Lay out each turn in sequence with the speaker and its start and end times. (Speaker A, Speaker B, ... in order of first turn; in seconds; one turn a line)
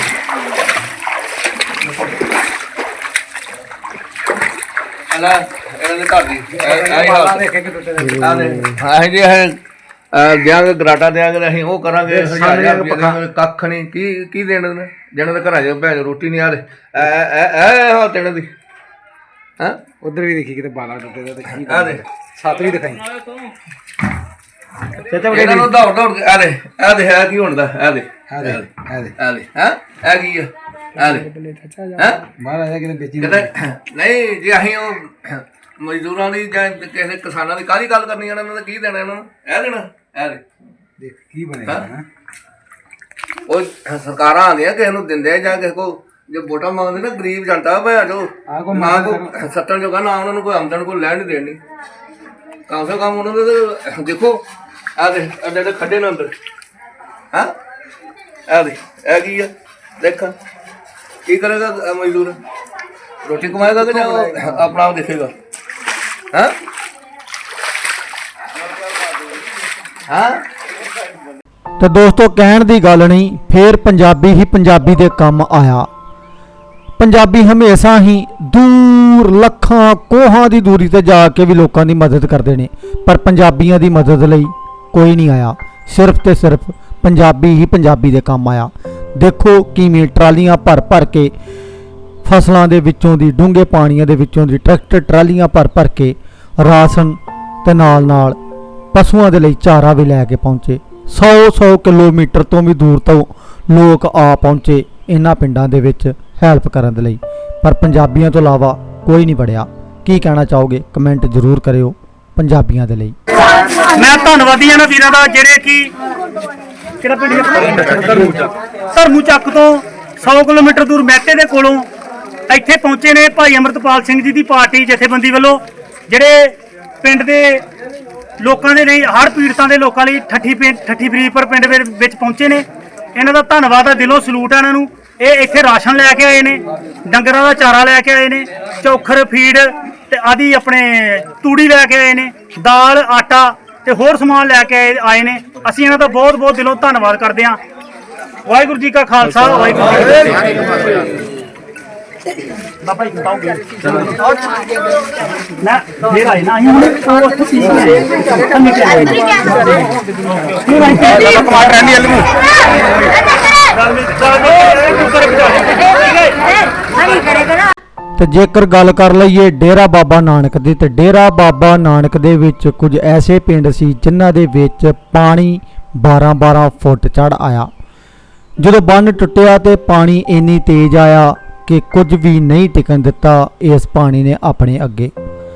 Speaker A: 5.1-7.5
Speaker B: 6.5-8.7
Speaker A: 8.2-9.6
Speaker A: 10.1-18.5
Speaker B: 12.2-13.2
Speaker B: 20.0-23.1
Speaker A: 21.5-22.0
Speaker A: 25.1-31.3
Speaker B: 25.2-25.7
Speaker B: 28.3-29.2
Speaker B: 31.0-33.5
Speaker A: 32.0-32.3
Speaker A: 33.2-40.4
Speaker B: 41.0-42.1
Speaker A: 43.5-51.6
Speaker B: 48.5-49.3
Speaker A: 52.7-54.4
Speaker A: 55.0-56.4
Speaker A: 58.5-60.4
Speaker A: 61.3-62.4
Speaker A: 63.2-65.3
Speaker B: 63.5-64.6
Speaker A: 70.1-70.5
Speaker C: 71.8-75.9
Speaker C: 77.0-91.3
Speaker C: 92.2-98.4
Speaker C: 98.9-113.2
Speaker D: 113.8-115.9
Speaker D: 117.0-121.9
Speaker D: 122.5-127.7
Speaker D: 128.4-147.6
Speaker D: 148.5-150.4
Speaker D: 152.8-154.5
Speaker D: 155.6-159.8
Speaker D: 160.4-162.4
Speaker D: 163.7-166.5
Speaker D: 167.0-167.4
Speaker C: 168.2-177.7
Speaker C: 178.6-185.1